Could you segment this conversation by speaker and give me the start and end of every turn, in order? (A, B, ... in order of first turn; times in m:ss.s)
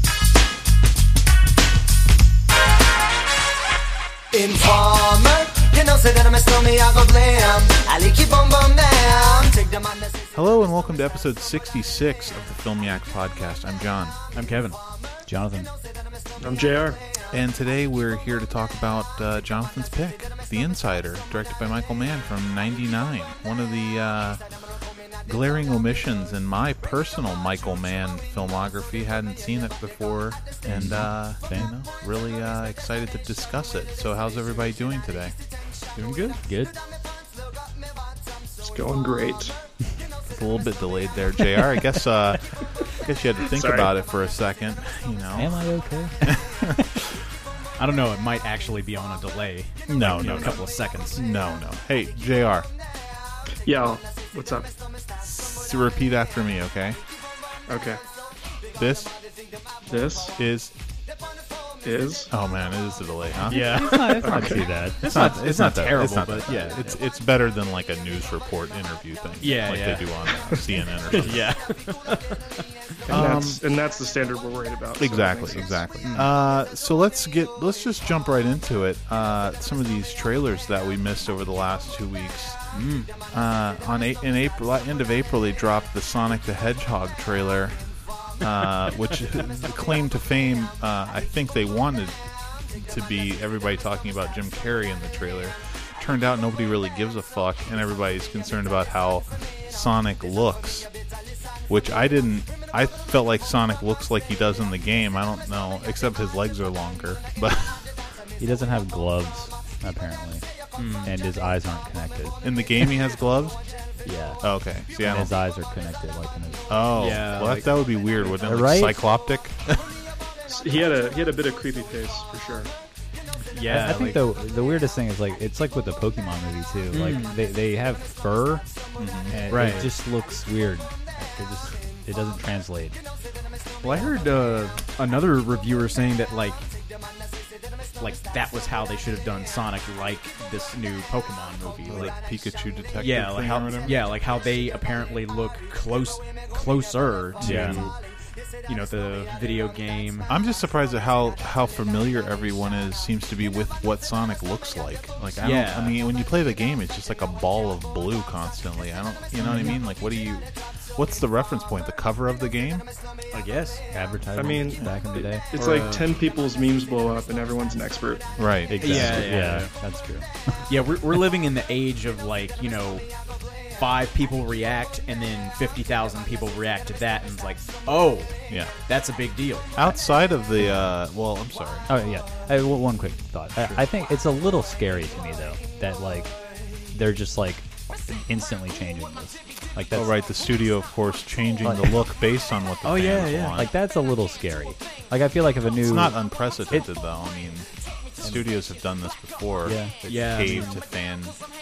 0:04.3-0:10.1 A
0:10.3-0:14.2 B
0:14.3-0:14.8 C
0:15.2-0:15.7 D
0:16.4-0:17.0 E
0:17.3-0:35.3 B
0:30.6-0:31.7 D
0:36.0-0:36.4 C
0:36.4-0:36.7 D
0:38.6-0:39.6 E
0:40.2-0:47.1 B
0:43.5-0:43.9 E
0:45.4-0:46.6 D
0:47.8-0:51.2 C
0:49.9-0:52.7 B
0:53.6-0:54.7 E
0:55.2-0:57.0 B
0:57.7-0:58.0 E
0:58.8-0:59.1 B
0:59.9-1:00.4 E
1:00.4-1:00.7 B
1:01.8-1:02.3 E
1:02.3-1:11.5 B
1:03.5-1:07.0 C
1:03.5-1:05.1 D
1:04.2-1:04.6 E
1:09.4-1:13.2 C
1:13.0-1:13.6 B
1:13.1-1:15.8 E
1:15.0-1:22.6 B
1:16.0-1:16.3 C
1:22.7-1:23.1 C
1:23.3-1:27.8 B
1:28.4-1:32.2 B
1:32.7-1:40.9 B
1:41.7-1:48.0 B
1:48.4-1:50.4 D
1:50.8-1:51.2 C
1:51.0-1:52.4 D
1:52.4-1:53.6 B
1:54.0-1:54.4 D
1:54.4-1:55.3 B
1:55.0-1:56.7 D
1:56.7-2:00.0 B
1:57.0-1:58.3 C
1:58.4-1:59.0 D
2:00.5-2:02.7 E
2:03.5-2:04.2 C
2:03.7-2:08.6 D
2:06.9-2:07.4 C
2:09.0-2:09.4 B
2:09.3-2:13.0 D
2:09.5-2:09.9 C
2:13.8-2:16.6 C
2:13.9-2:14.3 D
2:18.0-2:22.2 C
2:21.8-2:24.0 B
2:23.0-2:28.0 C
2:27.4-2:27.9 B
2:27.4-2:27.9 D
2:28.7-2:30.3 C
2:30.3-2:42.8 B
2:35.4-2:36.0 C
2:39.4-2:39.7 D
2:43.3-2:43.8 C
2:43.9-2:45.4 D
2:44.4-2:48.3 E
2:45.5-2:46.0 C
2:48.4-2:49.3 B
2:48.7-2:50.7 D
2:48.8-2:49.7 C
2:50.7-2:53.1 C
2:53.8-2:59.7 C
2:58.5-2:58.7 B
2:59.8-3:01.9 B
3:01.9-3:06.4 D
3:03.6-3:03.8 B
3:06.9-3:10.1 D
3:09.9-3:13.7 B
3:11.6-3:11.9 D
3:12.8-3:13.7 C
3:13.5-3:16.9 D
3:15.8-3:21.4 B
3:18.2-3:18.5 D
3:19.6-3:20.8 D
3:20.1-3:20.8 C